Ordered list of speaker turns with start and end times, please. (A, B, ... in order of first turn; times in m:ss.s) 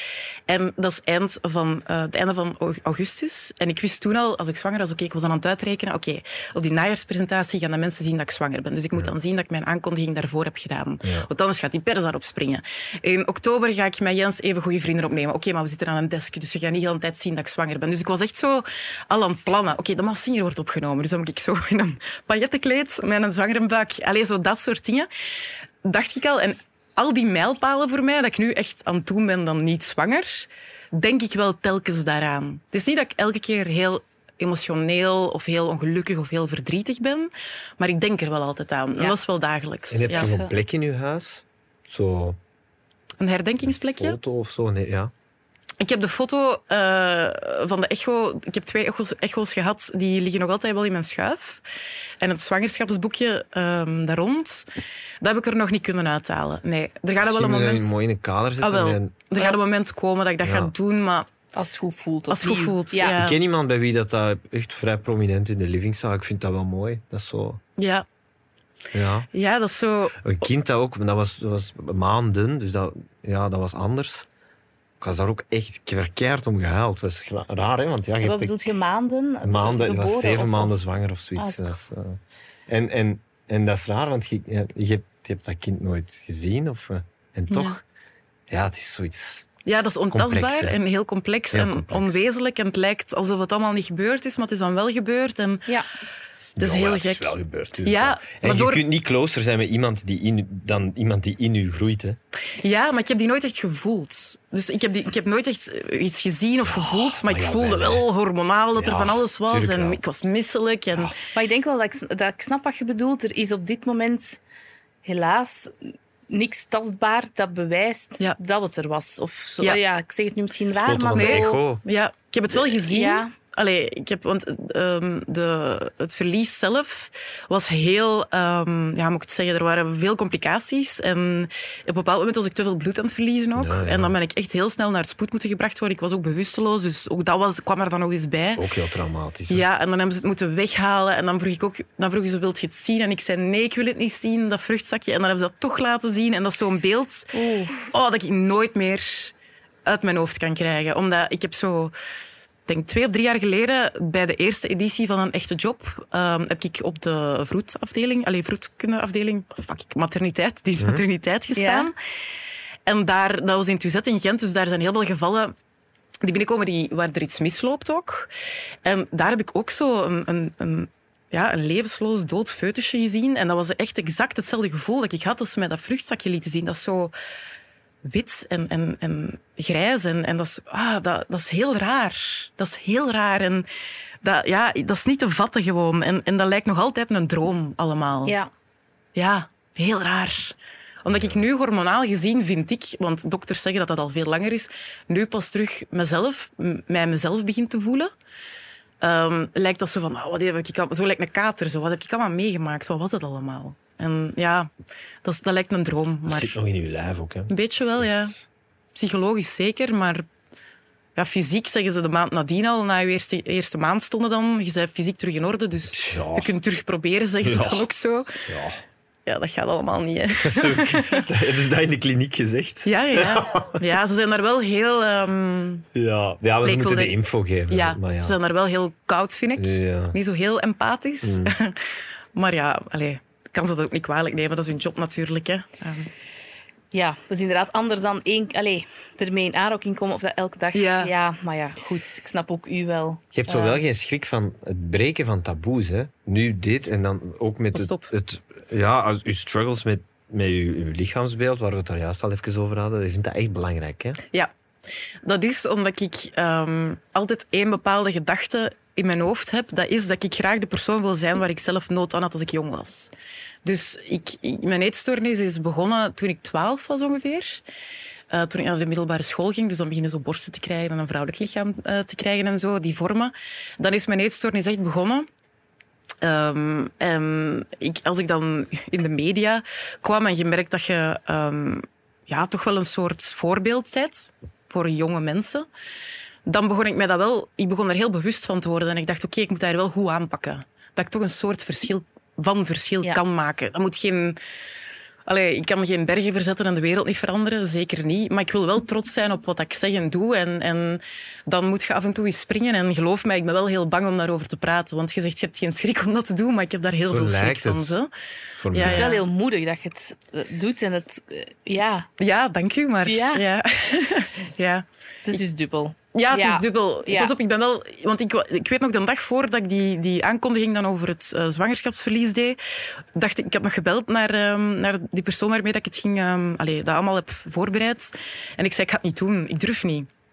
0:00.5-0:25.1 A
0:11.0-0:11.3 B
0:25.8-0:40.3 A
0:39.9-0:42.4 B
0:40.1-0:40.5 C
0:43.2-0:44.2 A
0:43.6-0:45.1 B
0:45.8-0:51.6 A
0:52.2-0:54.7 A
0:55.2-0:58.0 A
0:57.2-0:59.1 B
0:58.6-1:01.3 A
0:59.4-0:59.7 C
1:00.4-1:00.7 B
1:01.5-1:03.2 C
1:02.3-1:03.4 A
1:03.1-1:07.6 B
1:07.8-1:08.1 A
1:08.9-1:09.3 B
1:09.3-1:10.2 A
1:10.2-1:14.3 B
1:15.0-1:18.7 B
1:18.2-1:20.8 C
1:19.4-1:27.8 B
1:21.4-1:21.6 C
1:28.5-1:29.5 B
1:29.6-1:35.7 A
1:30.1-1:30.8 B
1:31.5-1:32.2 B
1:36.6-1:42.2 B
1:36.6-1:38.8 A
1:42.6-1:51.1 A
1:46.6-1:48.1 B
1:48.8-1:50.0 B
1:51.3-1:54.4 C
1:55.0-1:55.7 C
1:56.3-2:01.6 C
2:00.8-2:01.8 B
2:01.1-2:18.6 A
2:02.5-2:03.3 C
2:13.6-2:14.2 B
2:18.6-2:19.6 B
2:19.5-2:27.3 A
2:27.3-2:27.9 C
2:27.9-2:29.3 A
2:29.9-2:31.9 A
2:32.7-2:41.9 A
2:41.6-2:41.9 C
2:42.9-2:45.5 A
2:46.2-2:48.3 A
2:48.8-2:57.1 A
2:58.0-3:03.7 A
3:04.2-3:08.4 A
3:08.3-3:08.5 C
3:09.2-3:18.1 A
3:11.1-3:11.4 B
3:19.0-3:24.7 A
3:25.2-3:26.6 A
3:26.3-3:28.4 B
3:27.5-3:28.4 A
3:29.0-3:30.3 A
3:31.2-3:38.4 A
3:35.9-3:36.5 B
3:37.4-3:37.9 B
3:38.5-3:38.8 B
3:39.3-3:41.3 A
3:40.4-3:43.8 B
3:42.8-3:45.9 A
3:45.9-3:48.4 B
3:46.6-3:47.2 A
3:47.7-3:51.8 A
3:49.6-3:50.2 B
3:51.2-3:51.5 B
3:52.4-3:56.1 A
3:56.9-4:03.8 C
4:00.7-4:01.1 A
4:03.3-4:14.2 B
4:07.7-4:08.1 A
4:15.2-4:23.1 A
4:23.6-4:27.6 A
4:28.3-4:35.3 A
4:36.2-4:45.7 A
4:46.5-4:54.4 A
4:55.3-5:08.1 A
5:07.0-5:08.0 B
5:08.6-5:09.2 B
5:08.7-5:09.2 A
5:08.8-5:12.1 C
5:12.2-5:15.4 A
5:13.0-5:13.4 C
5:15.3-5:17.3 C
5:16.1-5:22.6 A
5:23.2-5:30.1 A